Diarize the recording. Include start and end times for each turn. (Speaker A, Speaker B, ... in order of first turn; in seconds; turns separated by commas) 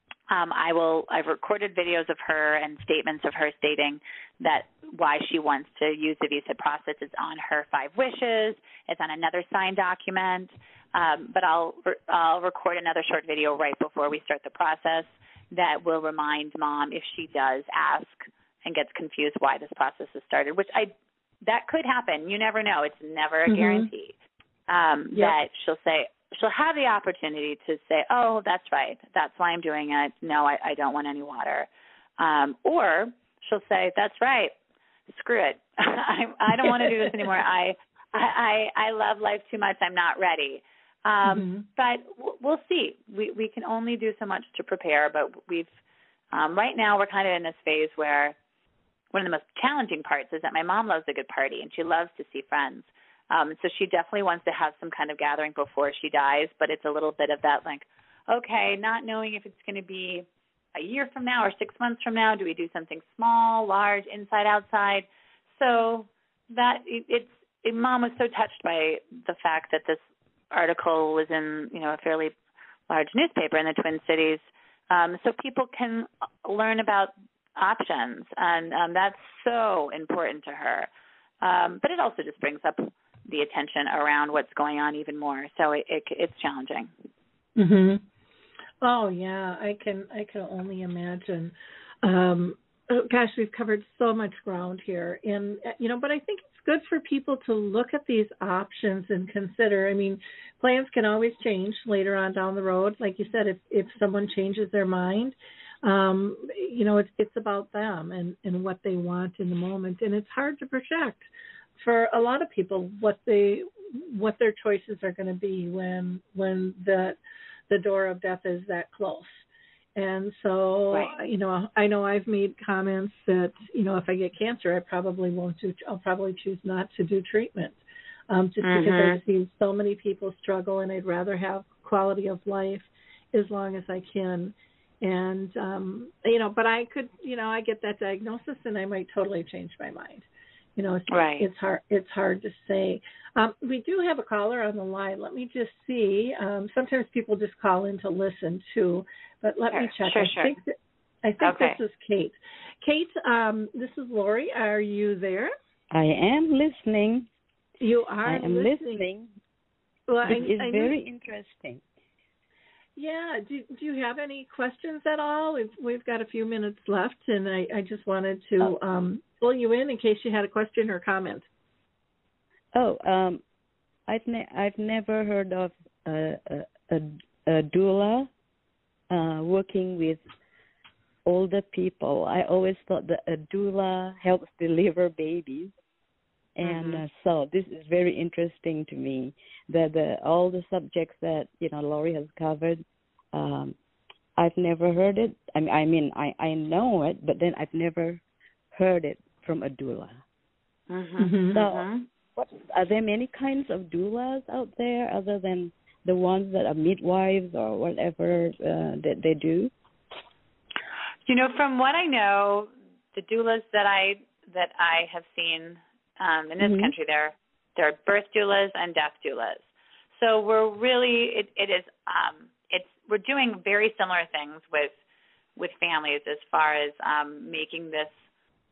Speaker A: 0.3-24.1, Speaker B: 23.4-23.9, Speaker A: 24.7-31.7, Speaker A: 32.2-34.5, Speaker A: 35.1-45.7, Speaker B: 36.6-37.3, Speaker B: 41.2-41.6, Speaker A: 46.3-48.4, Speaker A: 49.1-70.0, Speaker A: 70.5-72.3, Speaker A: 72.9-80.9, Speaker A: 81.4-86.9, Speaker B: 87.5-88.0, Speaker B: 88.8-111.3, Speaker B: 111.8-117.2, Speaker B: 117.7-119.4, Speaker B: 120.0-155.5, Speaker A: 128.6-129.2, Speaker A: 141.1-141.5, Speaker A: 149.7-150.6, Speaker A: 151.4-151.8, Speaker C: 155.9-157.3, Speaker B: 157.8-159.0, Speaker C: 158.2-159.3, Speaker B: 160.1-160.9, Speaker C: 160.2-161.8, Speaker B: 162.9-171.4, Speaker C: 172.7-173.4, Speaker C: 174.1-178.3, Speaker C: 179.1-180.2, Speaker C: 181.2-185.7, Speaker C: 186.6-193.8, Speaker A: 186.6-187.0, Speaker C: 194.4-198.2, Speaker C: 198.7-200.2, Speaker A: 200.9-202.1, Speaker B: 201.2-201.6, Speaker C: 201.5-209.7, Speaker A: 211.3-224.9, Speaker C: 216.6-216.9, Speaker A: 225.6-228.1